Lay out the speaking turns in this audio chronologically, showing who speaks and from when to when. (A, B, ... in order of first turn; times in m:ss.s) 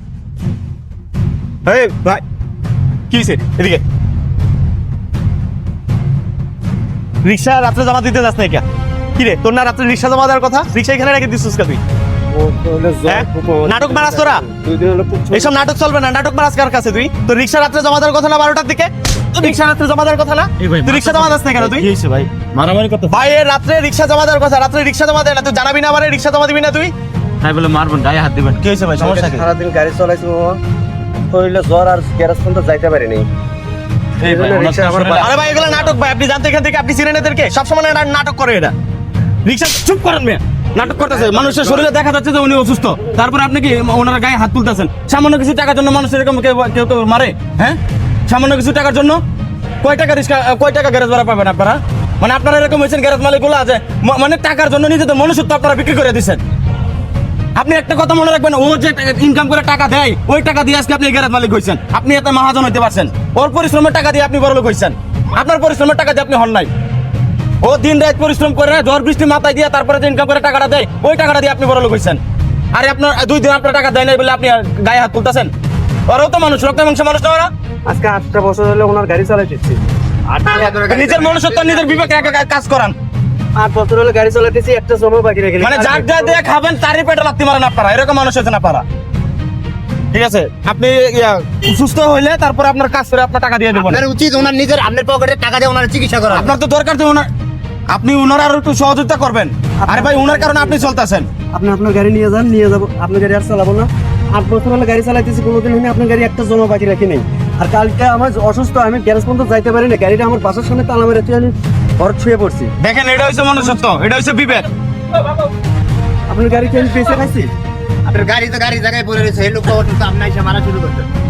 0:01.7-0:02.2 A
0:03.1-0:03.8 A
0:07.2-0:08.6 A
0:09.2-0:11.8 A
0:12.3-0:15.6 B
0:13.1-0:14.4 A
0:15.3-0:21.9 A
0:20.6-0:23.1 C
0:23.1-0:26.9 A
0:27.4-0:28.6 C
0:28.6-0:29.5 A
0:29.0-0:30.6 B
0:31.3-0:33.3 B
0:34.2-0:35.5 B
0:34.2-0:35.8 C
0:34.3-0:38.7 A
0:39.4-0:49.2 A
0:49.8-0:56.4 A
0:57.6-1:06.7 A
1:07.6-1:12.2 A
1:12.7-1:15.5 A
1:16.1-1:17.5 A
1:17.9-1:20.6 B
1:20.6-1:23.0 A
1:20.6-1:22.0 D
1:23.6-1:26.4 B
1:25.6-1:28.8 A
1:30.1-1:34.0 A
1:33.8-1:36.5 D
1:36.3-1:37.3 A
1:37.9-1:41.3 A
1:39.8-1:40.9 B
1:41.5-1:52.7 B
1:52.8-1:54.7 A
1:56.3-1:57.5 B
1:58.1-2:01.1 D